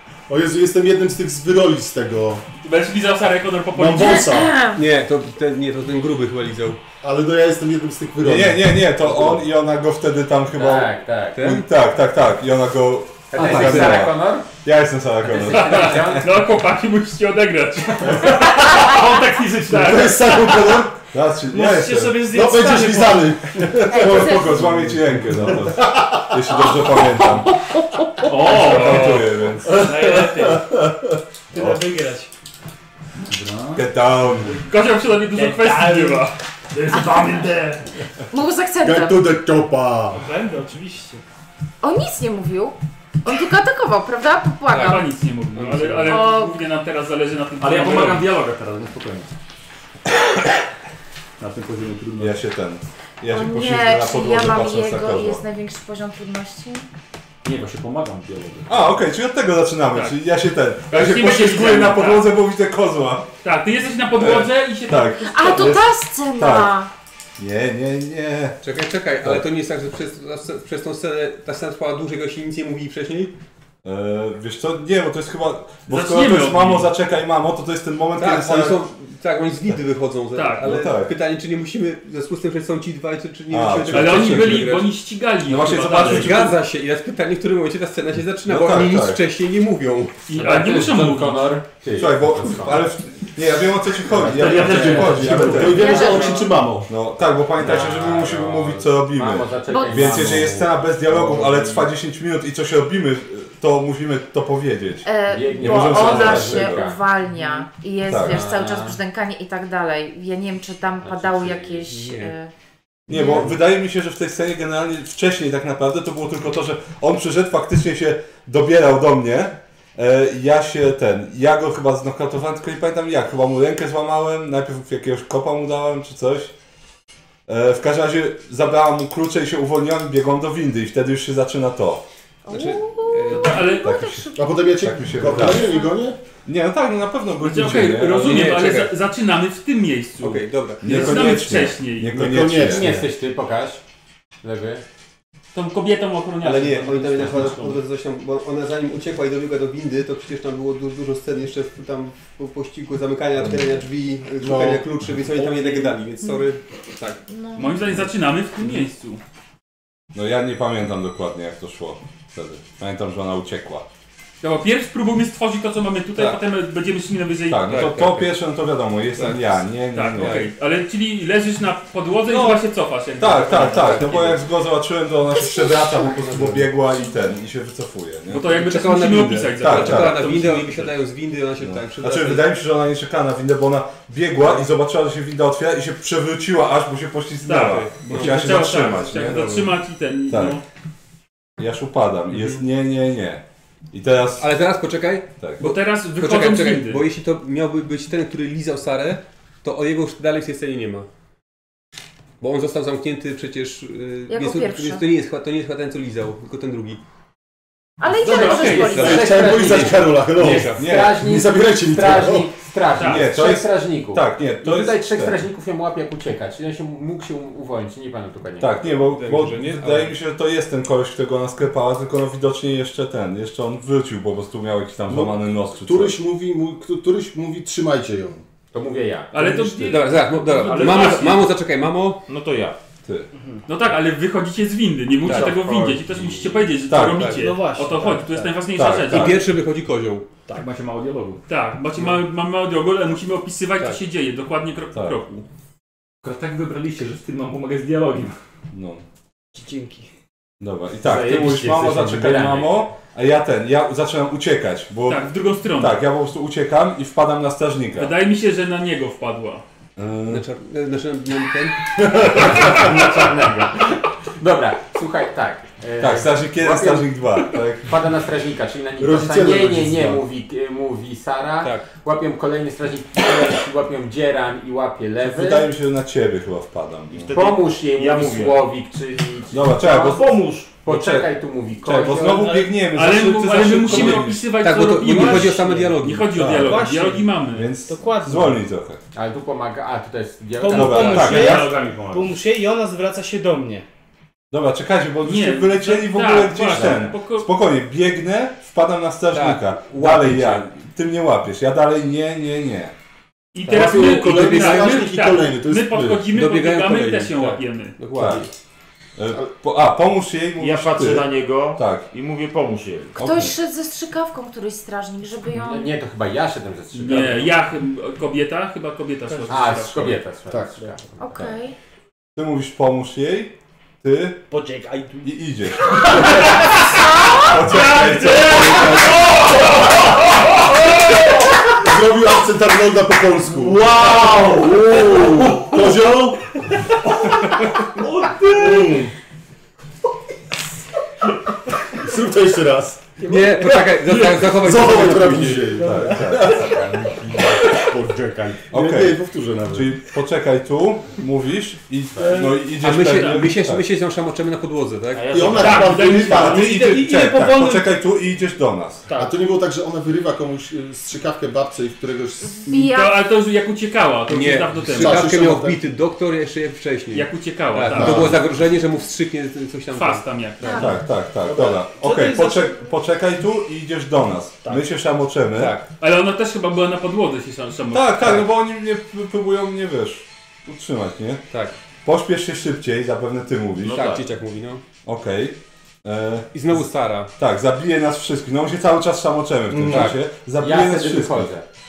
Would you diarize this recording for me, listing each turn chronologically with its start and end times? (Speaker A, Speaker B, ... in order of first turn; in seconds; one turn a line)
Speaker A: 0.3-2.4
Speaker B: 2.6-4.3
Speaker A: 3.7-4.5
Speaker C: 3.9-4.8
Speaker D: 4.7-6.8
Speaker A: 7.0-8.9
Speaker E: 8.2-16.4
Speaker D: 9.0-9.4
Speaker F: 10.5-11.4
Speaker D: 11.3-11.7
Speaker F: 13.3-14.5
Speaker D: 13.3-14.1
Speaker F: 15.2-16.3
Speaker B: 15.5-18.9
Speaker G: 18.1-20.1
Speaker A: 19.7-21.0
Speaker B: 19.7-20.8
Speaker E: 21.1-22.3
Speaker H: 21.5-23.3
Speaker A: 22.2-26.6
Speaker E: 23.8-27.6
Speaker C: 23.9-24.6
Speaker G: 28.2-29.3
Speaker E: 28.4-30.1
Speaker B: 28.6-29.3
Speaker H: 29.6-30.7
Speaker H: 31.5-32.3
Speaker E: 31.5-31.8
Speaker G: 33.2-34.5
Speaker E: 33.7-34.6
Speaker B: 34.5-37.5
Speaker H: 35.3-37.8
Speaker C: 37.0-37.2
Speaker C: 38.3-39.3
Speaker A: 38.8-40.2
Speaker H: 40.1-41.2
Speaker C: 41.8-45.1
Speaker D: 44.7-46.2
Speaker B: 44.8-48.3
Speaker C: 46.1-46.6
Speaker G: 47.6-49.3
Speaker G: 51.4-52.4
Speaker E: 52.2-55.4
Speaker C: 53.2-56.9
Speaker G: 57.4-59.0
Speaker E: 58.7-63.3
Speaker B: 59.9-60.2
Speaker B: 60.9-62.3
Speaker B: 63.4-65.8
Speaker E: 64.1-66.8
Speaker C: 65.3-66.9
Speaker E: 67.4-68.6
Speaker D: 68.6-73.3
Speaker E: 73.8-78.8
Speaker B: 75.9-76.9
Speaker D: 78.1-85.0
Speaker B: 80.3-80.8
Speaker E: 80.6-81.1
Speaker E: 83.5-84.8
Speaker B: 83.9-86.4
Speaker E: 85.4-86.6
Speaker D: 85.7-90.2
Speaker E: 88.4-89.2
Speaker B: 90.3-91.6
Speaker F: 90.3-92.9
Speaker E: 91.9-96.2
Speaker A: 94.1-96.9
Speaker F: 94.3-95.4
Speaker G: 94.3-95.9
Speaker C: 95.6-96.5
Speaker E: 96.9-106.9
Speaker F: 97.6-101.4
Speaker C: 99.7-100.3
Speaker A: 101.1-101.6
Speaker C: 105.0-112.5
Speaker F: 105.3-107.0
Speaker H: 107.3-107.7
Speaker E: 108.1-108.4
Speaker F: 108.2-109.0
Speaker F: 111.0-111.9
Speaker H: 112.0-112.2
Speaker E: 113.1-126.5
Speaker C: 113.1-113.5
Speaker E: 127.5-132.0
Speaker C: 132.4-134.5
Speaker D: 132.5-133.7
Speaker B: 133.3-133.9
Speaker E: 133.8-135.9
Speaker A: 134.3-136.2
Speaker C: 135.2-135.9
Speaker E: 136.4-138.5
Speaker B: 137.4-142.2
Speaker D: 138.1-139.0
Speaker D: 140.2-141.4
Speaker E: 140.8-143.0
Speaker A: 142.1-143.1
Speaker F: 142.6-143.8
Speaker F: 144.4-144.8
Speaker B: 145.5-147.8
Speaker D: 146.4-157.2
Speaker E: 153.4-153.8
Speaker A: 154.4-154.9
Speaker C: 155.8-156.4
Speaker C: 157.3-157.9
Speaker B: 157.6-159.2
Speaker E: 160.1-163.8
Speaker B: 164.4-167.6
Speaker E: 167.5-170.5
Speaker D: 167.6-168.4
Speaker D: 169.1-169.6
Speaker B: 169.9-174.3
Speaker D: 172.3-172.6
Speaker E: 173.2-178.5
Speaker D: 173.4-174.4
Speaker C: 175.4-176.2
Speaker D: 176.2-176.7
Speaker B: 178.3-180.9
Speaker D: 178.5-182.5
Speaker E: 179.1-180.3
Speaker E: 181.6-190.6
Speaker D: 184.4-184.7
Speaker B: 187.4-190.6
Speaker D: 187.9-188.6
Speaker E: 191.6-194.5
Speaker D: 192.3-192.6
Speaker D: 194.4-201.1
Speaker B: 195.6-197.0
Speaker D: 202.4-207.0
Speaker C: 204.3-205.0
Speaker C: 208.0-209.4
Speaker D: 208.2-210.9
Speaker B: 208.2-209.0
Speaker F: 208.3-218.8
Speaker A: 209.0-212.5
Speaker E: 210.8-211.2
Speaker B: 213.0-213.3
Speaker E: 213.0-215.4
Speaker E: 218.6-226.2
Speaker D: 218.9-220.2
Speaker A: 225.1-228.4
Speaker F: 228.7-229.4
Speaker B: 229.3-231.5
Speaker D: 229.7-232.2
Speaker I: 230.7-231.2
Speaker I: 232.3-232.8
Speaker H: 233.3-233.6
Speaker B: 233.7-239.4
Speaker D: 235.2-236.4
Speaker E: 236.9-237.3
Speaker D: 237.0-237.4
Speaker H: 237.3-238.6
Speaker E: 238.7-239.5
Speaker D: 239.0-240.2
Speaker G: 240.5-241.4
Speaker B: 241.5-245.4
Speaker E: 244.9-245.2
Speaker G: 246.2-248.4
Speaker E: 248.7-249.0
Speaker H: 249.5-250.1
Speaker E: 250.6-258.1
Speaker F: 251.0-252.8
Speaker B: 255.0-256.0
Speaker B: 257.9-259.6
Speaker E: 260.0-260.4
Speaker D: 260.2-262.9
Speaker F: 262.1-275.7
Speaker E: 266.0-267.9
Speaker A: 269.0-270.2
Speaker E: 275.2-277.3
Speaker I: 277.1-278.7
Speaker F: 277.3-280.0
Speaker E: 279.5-281.3
Speaker I: 279.8-280.7
Speaker F: 280.8-282.5
Speaker E: 281.8-284.5
Speaker H: 282.2-282.8
Speaker B: 282.8-287.8
Speaker D: 283.8-286.3
Speaker E: 286.3-286.8
Speaker H: 286.5-288.6
Speaker E: 287.4-289.0
Speaker F: 289.1-291.4
Speaker H: 290.6-293.8
Speaker E: 290.7-291.8
Speaker D: 290.9-291.3
Speaker G: 291.3-292.1
Speaker I: 291.4-292.3
Speaker E: 294.5-302.9
Speaker B: 295.2-297.5
Speaker D: 299.3-300.7
Speaker B: 303.5-308.0
Speaker A: 303.6-306.2
Speaker D: 303.7-305.1
Speaker D: 306.2-308.5
Speaker E: 308.1-308.4
Speaker E: 309.2-312.1
Speaker I: 310.6-313.2
Speaker E: 313.1-313.5
Speaker C: 313.2-315.9
Speaker F: 315.5-317.6
Speaker B: 316.9-320.2
Speaker H: 319.3-319.6
Speaker F: 319.5-321.5
Speaker C: 321.2-321.7
Speaker E: 322.4-324.4
Speaker H: 324.5-325.3
Speaker E: 325.2-326.8
Speaker H: 325.9-326.5
Speaker B: 326.1-326.7
Speaker C: 327.2-327.5
Speaker E: 327.3-329.1
Speaker B: 327.6-329.9
Speaker A: 331.7-334.3
Speaker I: 333.5-334.3
Speaker A: 334.9-336.5
Speaker I: 335.0-335.3
Speaker A: 338.4-339.1
Speaker A: 341.9-343.1
Speaker D: 343.2-345.8
Speaker H: 343.3-343.8
Speaker A: 344.5-349.9
Speaker E: 345.7-346.8
Speaker H: 345.8-346.7
Speaker E: 348.7-353.8
Speaker D: 352.6-355.9
Speaker B: 353.0-353.5
Speaker I: 355.1-356.0
Speaker A: 355.3-356.7
Speaker B: 355.5-356.8
Speaker E: 356.1-359.1
Speaker H: 356.6-357.9
Speaker H: 359.1-359.3
Speaker A: 359.1-362.9
Speaker C: 362.4-363.2
Speaker B: 362.9-365.3
Speaker D: 364.3-370.9
Speaker A: 364.9-365.8
Speaker B: 367.1-368.4
Speaker A: 367.9-368.4
Speaker B: 369.9-370.8
Speaker C: 370.6-371.0
Speaker E: 370.7-375.8
Speaker H: 371.4-372.9
Speaker D: 375.5-375.9
Speaker B: 376.0-378.4
Speaker E: 377.9-381.4
Speaker D: 378.2-378.5
Speaker D: 381.5-381.8
Speaker E: 382.0-384.1
Speaker D: 383.8-384.8
Speaker I: 383.8-384.2
Speaker E: 385.0-386.8
Speaker D: 386.5-387.3
Speaker E: 387.4-391.5
Speaker A: 389.7-390.1
Speaker D: 389.8-390.2
Speaker F: 390.6-391.6